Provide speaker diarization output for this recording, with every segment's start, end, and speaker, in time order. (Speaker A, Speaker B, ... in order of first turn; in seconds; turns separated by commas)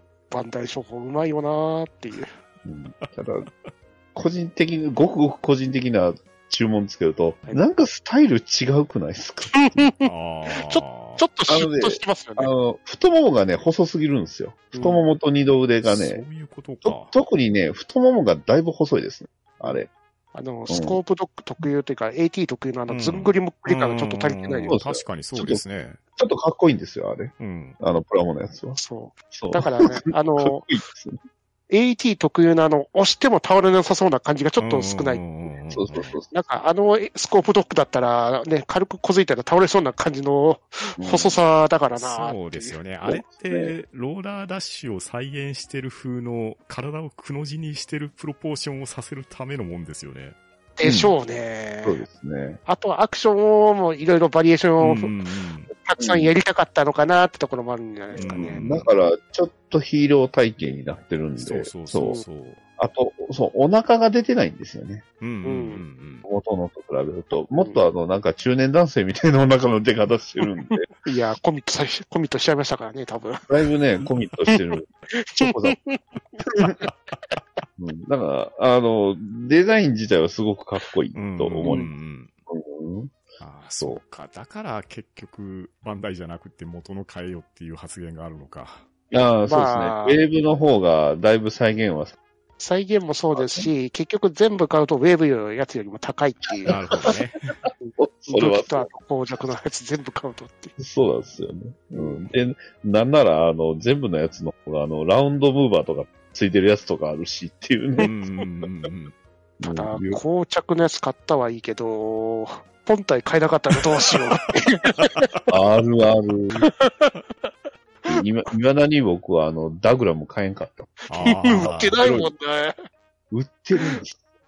Speaker A: 0.3-2.3, Speaker B: 2.6-3.5, Speaker B: 4.2-9.9, Speaker A: 9.5-12.5, Speaker C: 10.0-11.3, Speaker B: 11.5-16.2, Speaker A: 14.7-15.0, Speaker C: 15.8-17.1, Speaker B: 16.9-19.9, Speaker A: 20.3-24.8, Speaker B: 20.7-21.0, Speaker C: 22.9-26.0, Speaker B: 24.7-25.6, Speaker B: 26.2-28.8, Speaker C: 27.4-27.8, Speaker A: 28.8-30.6, Speaker B: 29.3-31.2, Speaker A: 31.7-35.3, Speaker C: 34.6-36.2, Speaker B: 35.7-36.3, Speaker A: 36.3-42.8, Speaker B: 41.0-41.4, Speaker C: 42.0-50.4, Speaker B: 43.0-43.7, Speaker A: 50.8-52.0, Speaker B: 50.8-51.1, Speaker B: 51.8-52.6, Speaker A: 52.7-55.2, Speaker C: 54.8-55.7, Speaker A: 55.7-58.7, Speaker B: 56.0-56.4, Speaker C: 58.1-58.9, Speaker B: 58.1-62.2, Speaker C: 61.4-62.6, Speaker A: 62.0-62.2, Speaker B: 62.8-65.0, Speaker C: 65.2-66.3, Speaker A: 65.5-65.8, Speaker B: 66.2-70.9, Speaker A: 67.6-67.8, Speaker A: 70.9-73.5, Speaker B: 73.5-75.8, Speaker A: 75.1-76.9, Speaker B: 77.8-81.9, Speaker C: 81.2-82.3, Speaker A: 81.7-81.9, Speaker B: 82.5-83.2, Speaker C: 83.4-88.8, Speaker B: 89.1-92.2, Speaker A: 89.5-90.2, Speaker A: 92.6-96.8, Speaker B: 93.3-93.7, Speaker B: 96.6-98.9, Speaker C: 96.7-97.4, Speaker A: 97.8-100.8, Speaker B: 100.8-108.1, Speaker A: 102.0-102.2, Speaker C: 108.0-109.1, Speaker A: 108.0-108.5, Speaker B: 109.6-110.2, Speaker A: 109.6-115.3, Speaker C: 115.0-115.5, Speaker B: 115.5-116.6, Speaker A: 116.6-117.1, Speaker B: 118.1-120.9, Speaker A: 121.0-122.8, Speaker C: 121.1-122.0, Speaker B: 121.6-122.3, Speaker B: 123.3-124.2